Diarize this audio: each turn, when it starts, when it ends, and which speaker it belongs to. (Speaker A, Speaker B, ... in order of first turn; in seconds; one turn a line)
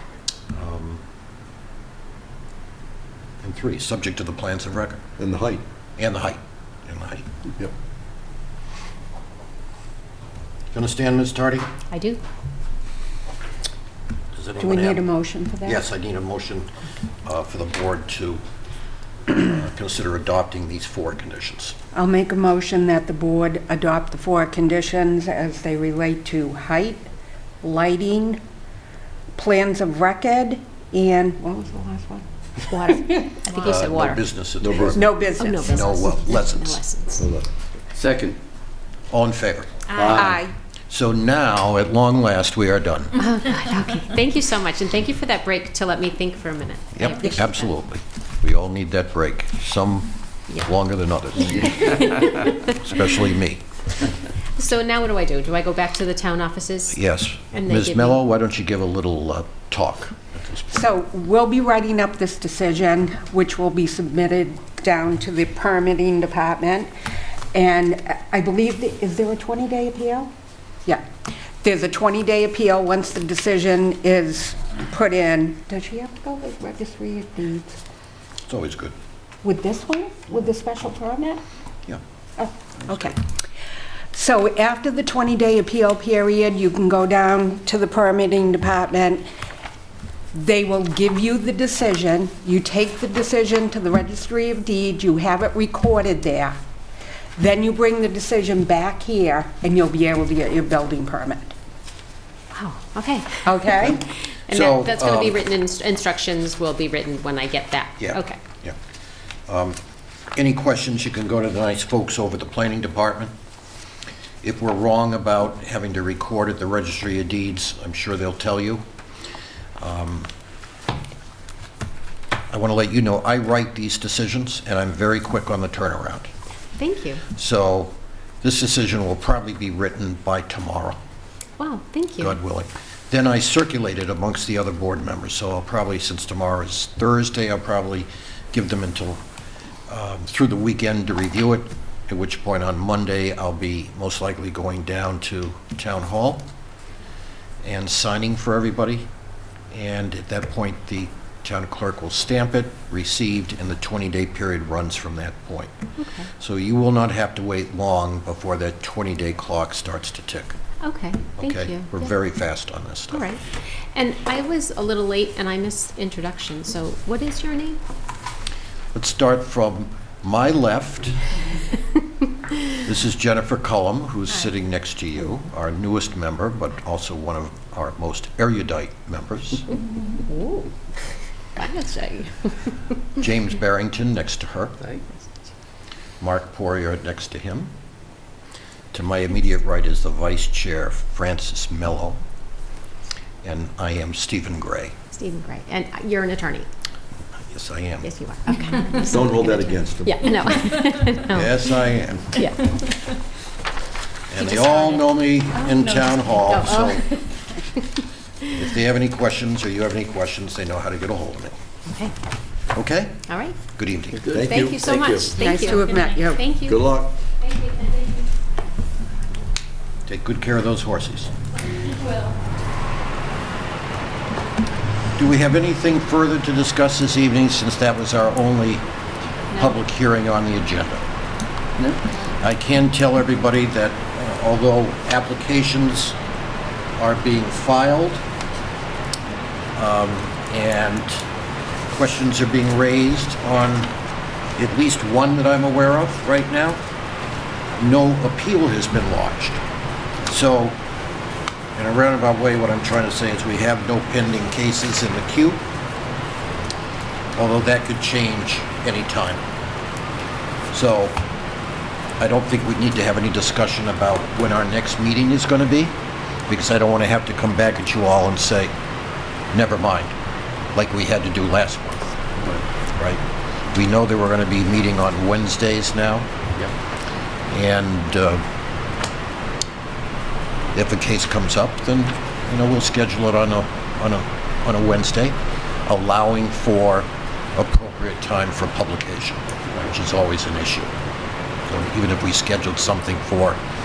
Speaker A: 0.5-1.0
Speaker A: 3.4-5.0
Speaker B: 5.2-5.6
Speaker A: 6.0-7.2
Speaker A: 10.7-11.7
Speaker C: 11.9-12.2
Speaker A: 14.3-15.0
Speaker D: 14.6-15.8
Speaker A: 15.6-16.7
Speaker A: 17.2-18.4
Speaker A: 19.3-21.8
Speaker D: 21.9-27.1
Speaker D: 27.6-28.4
Speaker D: 29.3-33.0
Speaker C: 32.6-34.2
Speaker A: 33.6-36.8
Speaker B: 34.6-35.0
Speaker D: 34.9-36.0
Speaker C: 35.4-37.3
Speaker B: 37.2-38.4
Speaker A: 39.1-43.2
Speaker B: 40.0-40.4
Speaker D: 40.0-40.5
Speaker C: 43.2-47.7
Speaker A: 46.9-53.6
Speaker C: 51.6-53.0
Speaker C: 54.5-57.0
Speaker A: 56.9-60.6
Speaker C: 57.5-58.2
Speaker D: 60.7-66.9
Speaker D: 67.5-70.3
Speaker D: 71.6-77.8
Speaker A: 78.5-78.9
Speaker D: 79.4-81.4
Speaker D: 82.4-83.2
Speaker A: 82.8-83.2
Speaker D: 84.1-89.3
Speaker D: 90.3-96.5
Speaker D: 97.4-101.5
Speaker C: 102.5-108.4
Speaker D: 103.4-104.0
Speaker A: 103.8-105.4
Speaker A: 108.0-108.8
Speaker A: 109.5-109.8
Speaker A: 110.3-113.3
Speaker A: 114.4-118.8
Speaker A: 119.8-120.3
Speaker A: 122.5-126.3
Speaker C: 126.8-127.2
Speaker A: 127.3-131.0
Speaker C: 131.6-132.4
Speaker A: 132.2-139.2
Speaker A: 139.9-146.5
Speaker A: 147.6-149.1
Speaker A: 149.7-155.7
Speaker C: 156.0-156.3
Speaker A: 156.4-160.6
Speaker C: 160.8-162.1
Speaker A: 161.4-163.2
Speaker C: 163.1-163.4
Speaker C: 163.9-167.8
Speaker A: 168.9-171.2
Speaker A: 172.7-179.6
Speaker C: 180.2-180.7
Speaker C: 181.6-182.5
Speaker A: 183.2-184.8
Speaker A: 186.2-187.7
Speaker A: 188.9-192.2
Speaker A: 193.4-194.9
Speaker C: 195.1-196.7
Speaker A: 197.5-198.1
Speaker C: 198.0-201.8
Speaker B: 199.0-200.3
Speaker A: 201.3-202.5
Speaker C: 202.3-202.7
Speaker A: 204.3-207.1
Speaker C: 204.4-205.0
Speaker C: 205.6-207.2
Speaker A: 208.5-211.6
Speaker C: 211.9-212.1
Speaker A: 212.7-213.2
Speaker C: 213.3-213.6
Speaker A: 213.7-214.6
Speaker B: 214.2-215.4
Speaker C: 214.4-216.9
Speaker D: 215.3-216.5
Speaker B: 216.6-217.1
Speaker C: 217.4-218.1
Speaker A: 220.1-221.3
Speaker A: 225.2-228.8
Speaker A: 229.5-231.0
Speaker A: 232.3-236.2
Speaker A: 237.0-238.2
Speaker A: 239.8-241.2
Speaker A: 241.9-243.9
Speaker A: 244.6-246.8
Speaker A: 247.7-249.6
Speaker A: 250.2-250.8
Speaker A: 251.8-255.6
Speaker A: 257.4-259.4
Speaker A: 260.7-261.2
Speaker A: 262.2-265.9
Speaker A: 266.5-268.7
Speaker A: 269.5-270.1
Speaker A: 270.7-272.2
Speaker A: 273.7-276.3
Speaker A: 277.5-278.4
Speaker A: 280.7-290.9
Speaker A: 291.6-293.6